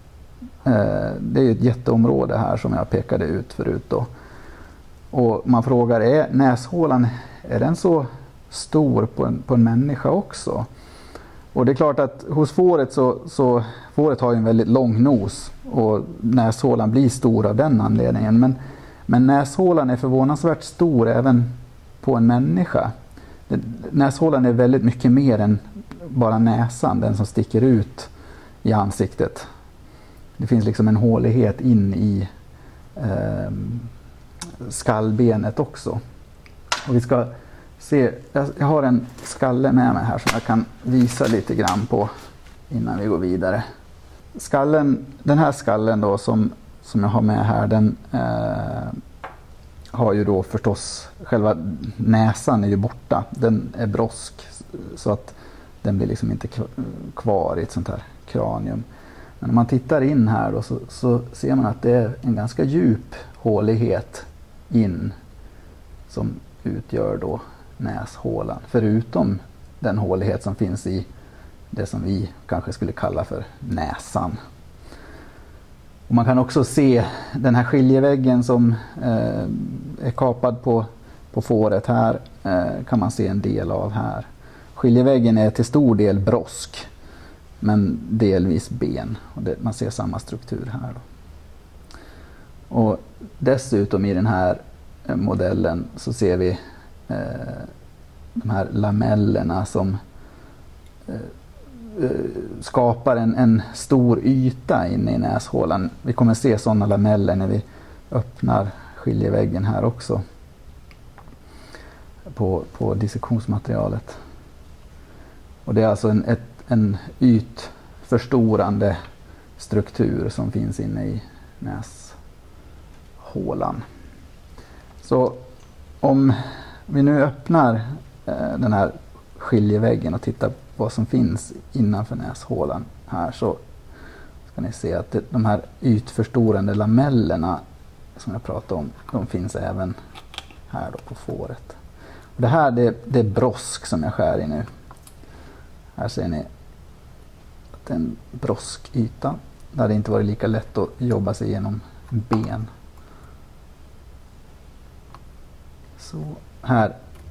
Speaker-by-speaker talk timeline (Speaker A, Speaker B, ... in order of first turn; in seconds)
Speaker A: 0.6-4.1, 5.1-10.7, 11.5-18.6, 19.1-21.5, 22.0-22.9, 23.5-28.1, 28.6-29.4, 30.4-32.3, 33.0-33.9, 34.6-36.0, 36.9-42.1, 42.7-43.6, 44.4-49.0, 49.9-58.8, 59.4-65.1, 66.1-71.1, 71.7-74.3, 76.1-86.8, 87.6-91.0, 92.7-97.7, 98.4-100.0, 101.9-110.2, 112.3-114.2, 115.7-119.0, 119.6-122.2, 123.2-123.8, 125.0-125.4, 126.0-126.4, 126.9-133.6, 134.5-137.6, 138.2-139.9, 140.7-141.8, 142.3-144.7, 145.9-146.5, 147.8-152.7, 156.0-156.9